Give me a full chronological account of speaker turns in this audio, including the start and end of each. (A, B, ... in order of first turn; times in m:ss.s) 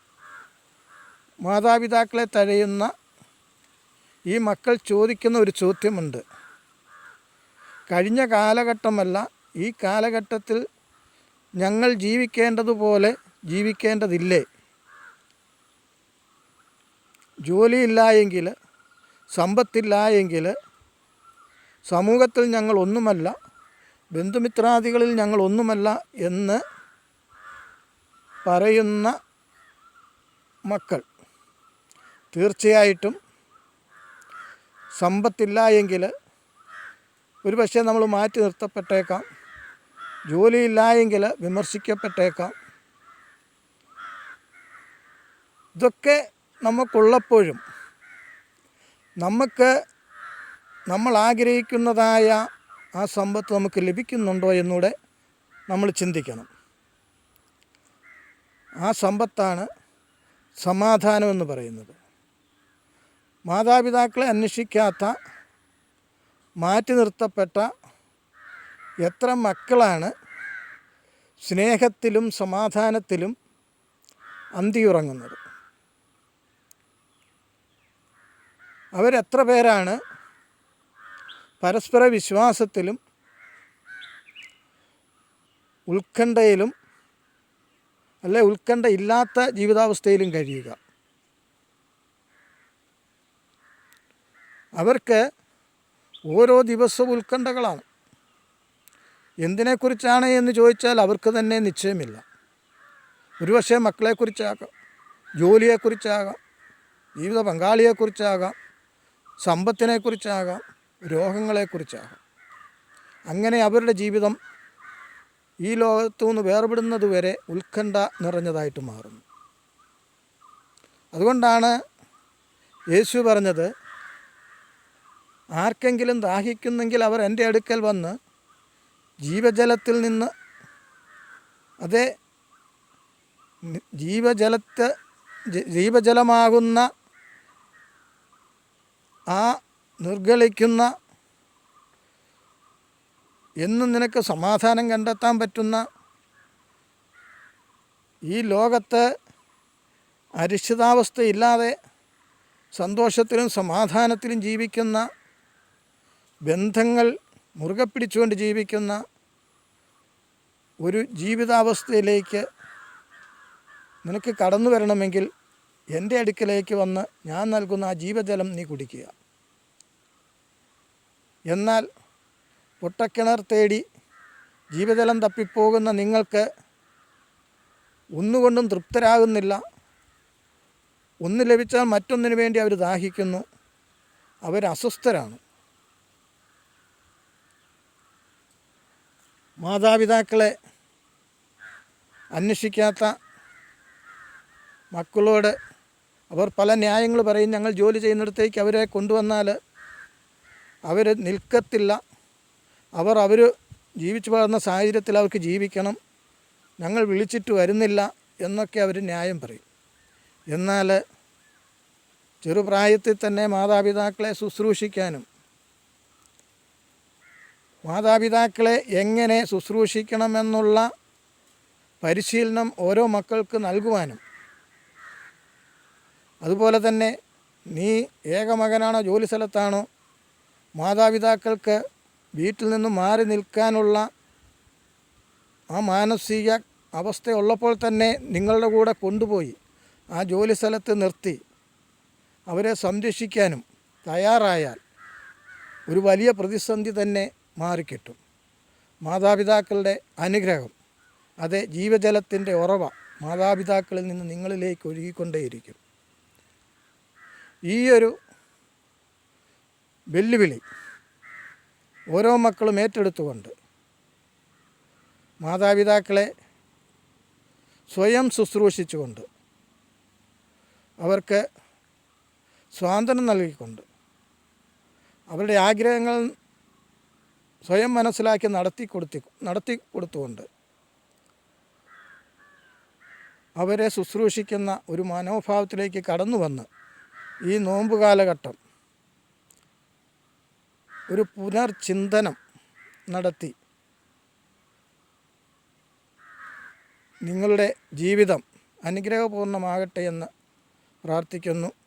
0:01.4-0:02.9 A
0:04.3-0:06.2 A
0:07.9-0:10.6 A
0:11.6-0:14.4 A
0:17.5-0:18.5 A
0:19.3-0:20.5 A
0:21.9-0:23.3 A
0:24.2-0:26.6 A
0:28.4-0:29.1 A
0:30.7-0:31.0 A
0:32.3-0:33.2 A
0:35.0-0:36.1 A
0:37.4-0:39.2 A
0:40.3-0:42.5 A
0:45.8-0:47.6 A
0:49.2-0:49.7 A
0:50.9-0:52.4 A
0:53.0-0:54.9 A
0:55.7-0:56.5 A
0:58.8-0:59.7 A
1:00.6-1:02.0 A
1:03.5-1:05.2 A
1:06.6-1:07.7 A
1:09.0-1:10.1 A
1:11.4-1:13.4 A
1:14.6-1:15.4 A
1:19.0-1:20.0 A
1:21.6-1:23.0 A
1:25.9-1:26.7 A
1:28.2-1:30.8 A
1:34.8-1:35.2 A
1:36.3-1:37.8 A
1:39.4-1:42.2 A
1:43.4-1:44.7 A
1:45.4-1:46.4 A
1:47.2-1:48.6 A
1:49.4-1:52.2 A
1:53.3-1:54.4 A
1:55.6-1:59.2 A
2:01.1-2:01.8 A
2:02.9-2:03.7 A
2:05.6-2:08.2 A
2:09.2-2:10.3 A
2:11.8-2:12.1 A
2:13.6-2:14.9 A
2:15.5-2:16.9 A
2:19.3-2:20.9 A
2:23.6-2:25.8 A
2:28.3-2:29.1 A
2:30.4-2:31.8 A
2:32.8-2:35.1 A
2:36.5-2:39.0 A
2:40.8-2:42.4 A
2:44.0-2:45.3 A
2:45.9-2:49.1 A
2:51.5-2:51.9 A
2:52.8-2:53.8 A
2:54.7-2:56.5 A
2:58.2-2:59.6 A
3:01.2-3:03.4 A
3:04.4-3:05.4 A
3:09.6-3:10.5 A
3:12.4-3:13.2 A
3:14.9-3:15.6 A
3:16.3-3:19.6 A
3:20.9-3:22.0 A
3:23.0-3:26.0 A
3:26.8-3:29.6 A
3:30.5-3:31.0 A
3:32.4-3:35.2 A
3:37.8-3:40.9 A
3:42.0-3:44.2 A
3:46.4-3:47.2 A
3:47.7-3:49.9 A
3:50.8-3:51.8 A
3:52.4-3:54.1 A
3:55.7-3:59.6 A
4:00.1-4:01.4 A
4:02.5-4:04.8 A
4:05.9-4:08.2 A
4:09.0-4:10.7 A
4:11.4-4:15.8 A
4:17.7-4:18.1 A
4:20.1-4:20.6 A
4:22.1-4:23.5 A
4:25.4-4:26.3 A
4:27.9-4:29.2 A
4:31.0-4:31.4 A
4:32.7-4:33.8 A
4:35.3-4:36.3 A
4:37.6-4:40.5 A
4:43.6-4:46.7 A
4:47.5-4:48.6 A
4:51.1-4:52.4 A
4:53.1-4:53.5 A
4:57.2-5:00.3 A
5:01.1-5:01.7 A